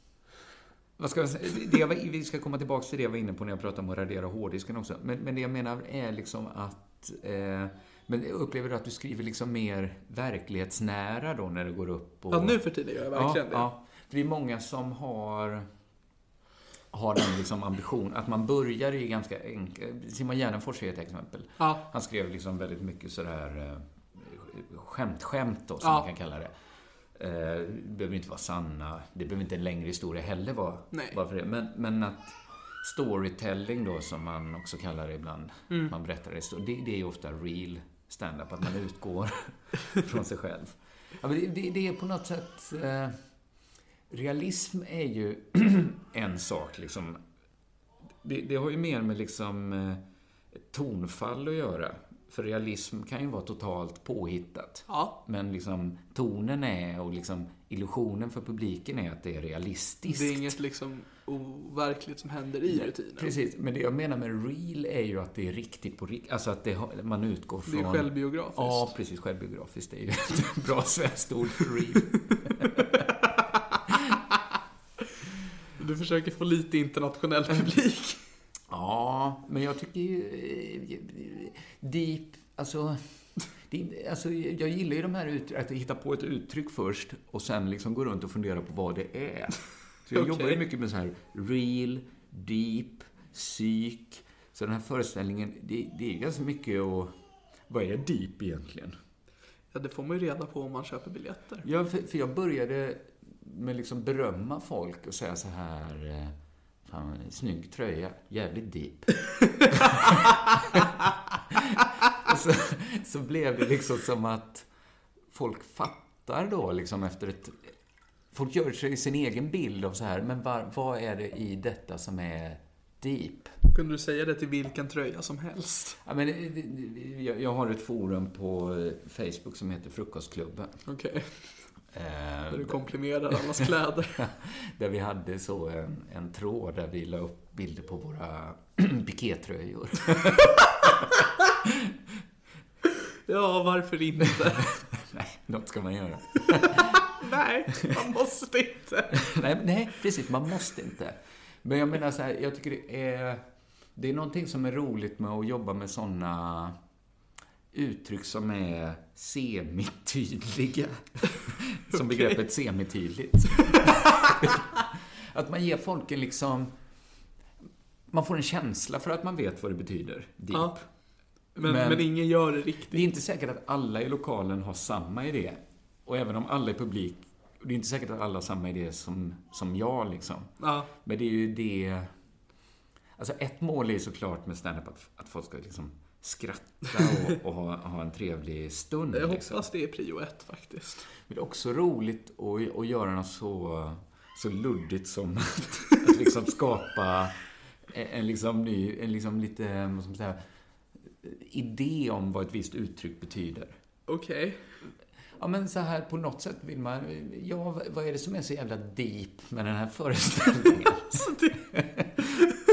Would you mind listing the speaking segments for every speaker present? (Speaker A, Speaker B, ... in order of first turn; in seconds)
Speaker A: 1.0-12.6, 13.1-15.7, 16.9-26.5, 27.2-43.2, 44.1-47.2, 48.2-50.0, 50.5-60.5, 62.7-72.8, 78.7-83.0, 83.7-97.1, 97.7-99.0, 101.6-109.1, 109.8-110.9, 111.5-114.7, 115.3-117.7, 118.3-123.5, 126.0-130.8, 131.9-132.8, 134.2-140.9, 141.6-141.9, 144.8-147.0, 149.2-153.4, 154.0-156.8, 157.7-164.7, 165.3-166.7, 168.1-170.8, 171.6-172.1, 172.9-182.1, 183.2-189.7, 191.3-197.3, 197.9-200.4, 201.1-203.8, 205.4-212.2
Speaker B: 12.3-13.7, 30.9-31.2, 54.9-55.1, 60.1-63.3, 67.7-68.9, 75.8-78.2, 90.1-90.6, 99.7-101.7, 123.7-126.0, 130.9-131.7, 132.5-134.2, 143.3-144.8, 147.1-149.2, 161.9-162.4, 171.6-173.0, 180.6-180.9, 189.1-191.1, 204.1-204.6, 211.1-211.7